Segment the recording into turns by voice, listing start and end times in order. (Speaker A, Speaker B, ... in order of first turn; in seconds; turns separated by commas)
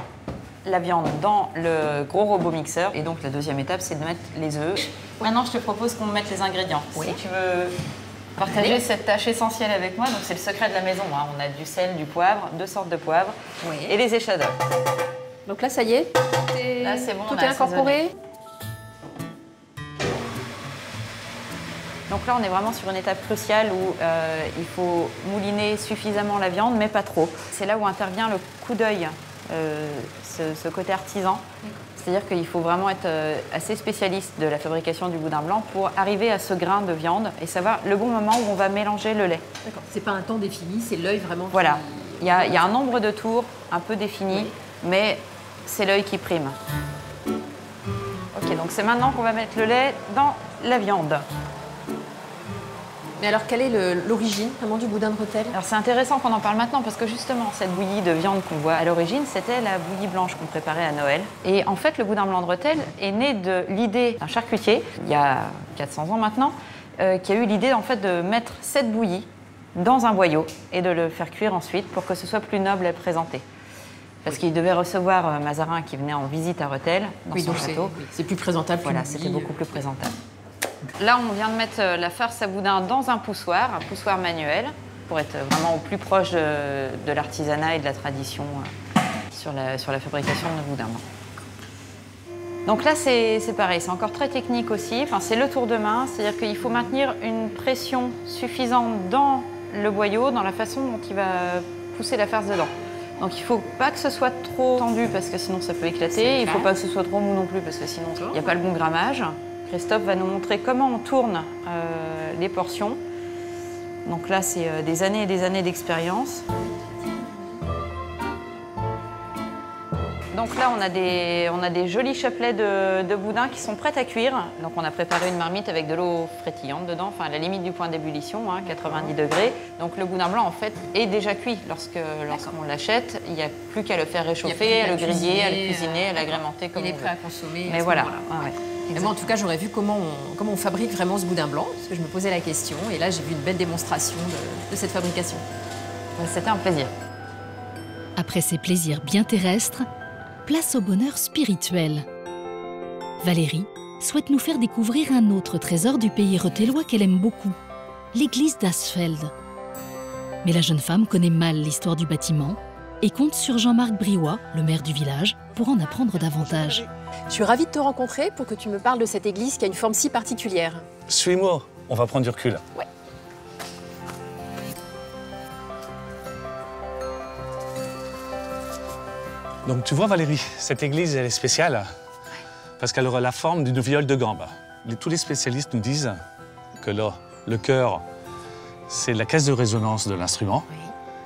Speaker A: 0.7-7.7, Speaker B: 6.9-7.2, Speaker A: 8.4-14.5, Speaker B: 8.5-8.8, Speaker B: 13.6-14.0, Speaker B: 15.5-18.1, Speaker A: 16.8-18.0, Speaker A: 22.1-31.4, Speaker A: 32.0-39.4, Speaker B: 39.6-42.7, Speaker A: 41.5-46.6, Speaker B: 44.3-44.5, Speaker A: 48.3-51.3, Speaker B: 53.2-55.5, Speaker A: 55.5-73.5, Speaker A: 74.2-78.0, Speaker B: 77.3-79.6, Speaker A: 78.8-80.1, Speaker A: 81.0-88.7, Speaker A: 89.3-91.0, Speaker A: 92.7-113.0, Speaker B: 106.1-106.7, Speaker B: 108.2-108.5, Speaker A: 114.0-116.4, Speaker A: 120.3-139.2, Speaker B: 128.7-129.1, Speaker B: 132.3-132.6, Speaker B: 134.4-145.4, Speaker A: 146.2-146.9, Speaker C: 148.2-149.9, Speaker C: 150.5-152.1, Speaker C: 153.2-157.6, Speaker C: 158.1-159.3, Speaker C: 160.4-166.8, Speaker B: 167.3-170.9, Speaker D: 171.1-172.6, Speaker D: 179.7-181.9, Speaker D: 182.8-186.2, Speaker D: 186.8-188.0, Speaker D: 188.9-190.7